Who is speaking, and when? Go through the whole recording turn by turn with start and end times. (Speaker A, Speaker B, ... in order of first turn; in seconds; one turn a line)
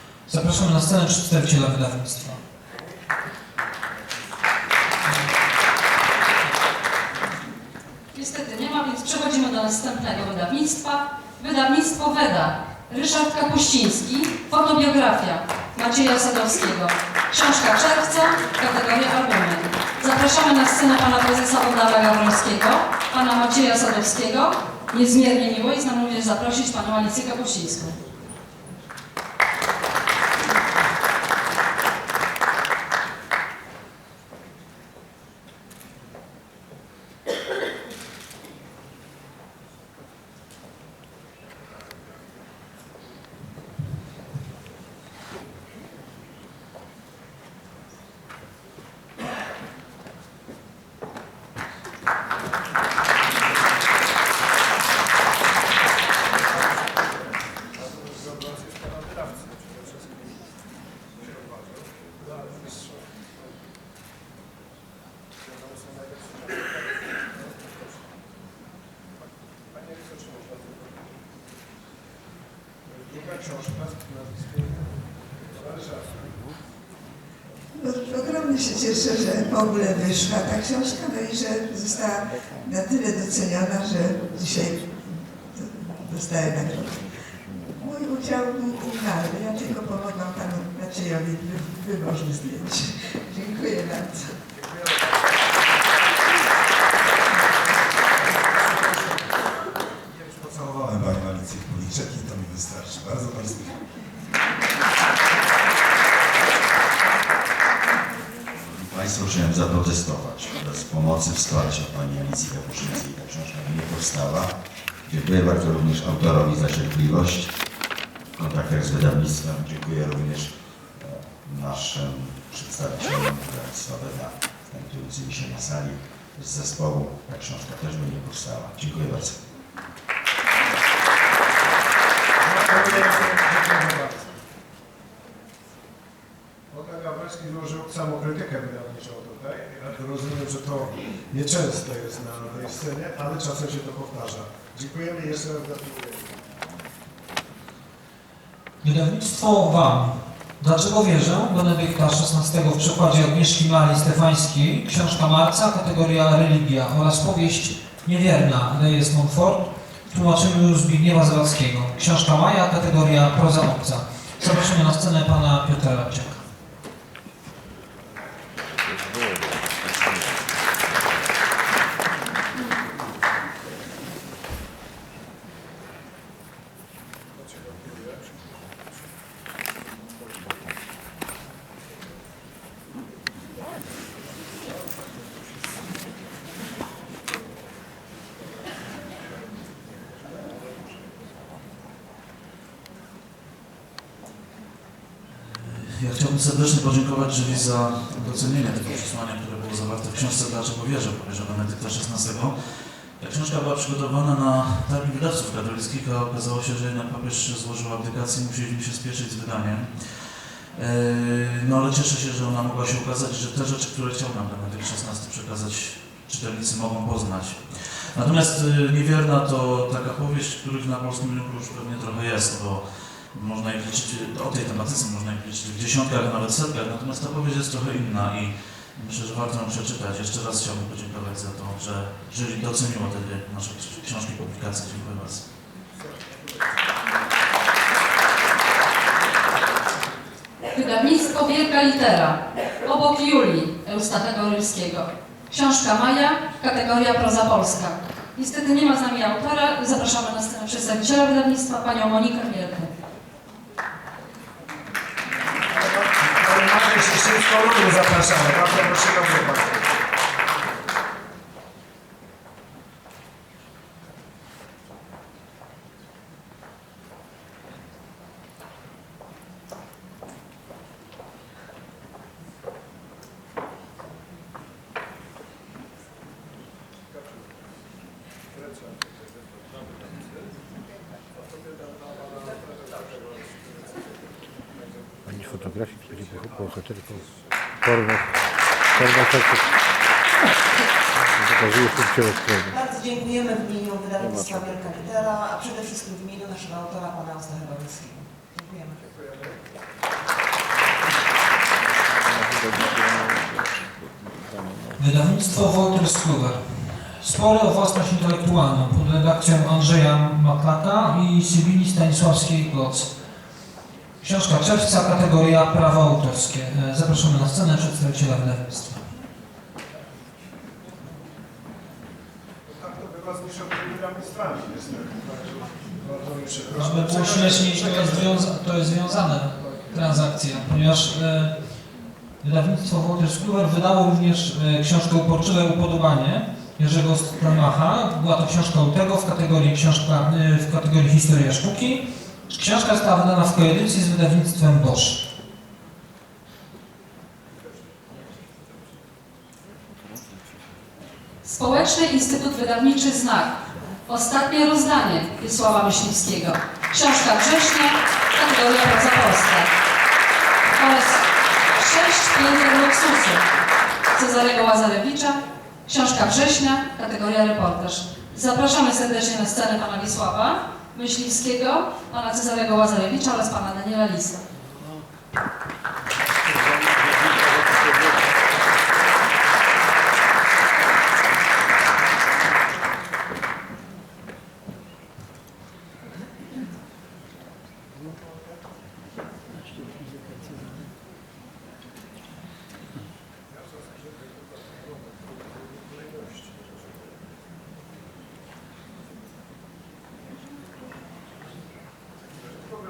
Speaker A: 0.2-2.4
Speaker B: 8.1-28.0
Speaker C: 57.9-59.5
Speaker C: 72.9-76.3
Speaker D: 77.7-94.3
Speaker C: 94.6-95.0
Speaker C: 98.6-99.2
Speaker C: 100.2-101.0
Speaker E: 100.5-103.8
Speaker F: 108.6-129.5
Speaker C: 132.4-134.3
Speaker C: 136.7-146.3
Speaker A: 148.8-166.4
Speaker G: 195.3-235.5
Speaker B: 240.7-252.9
Speaker C: 255.7-259.8
Speaker H: 287.9-288.2
Speaker H: 289.0-289.5
Speaker H: 291.6-292.7
Speaker I: 292.7-299.0
Speaker C: 299.2-299.5
Speaker A: 305.0-313.5
Speaker A: 314.2-319.0
Speaker C: 322.7-328.4
Speaker A: 326.7-345.2
Speaker B: 351.4-353.5
Speaker B: 354.1-359.7
Speaker B: 360.8-363.4
Speaker B: 364.1-374.4
Speaker C: 395.8-396.6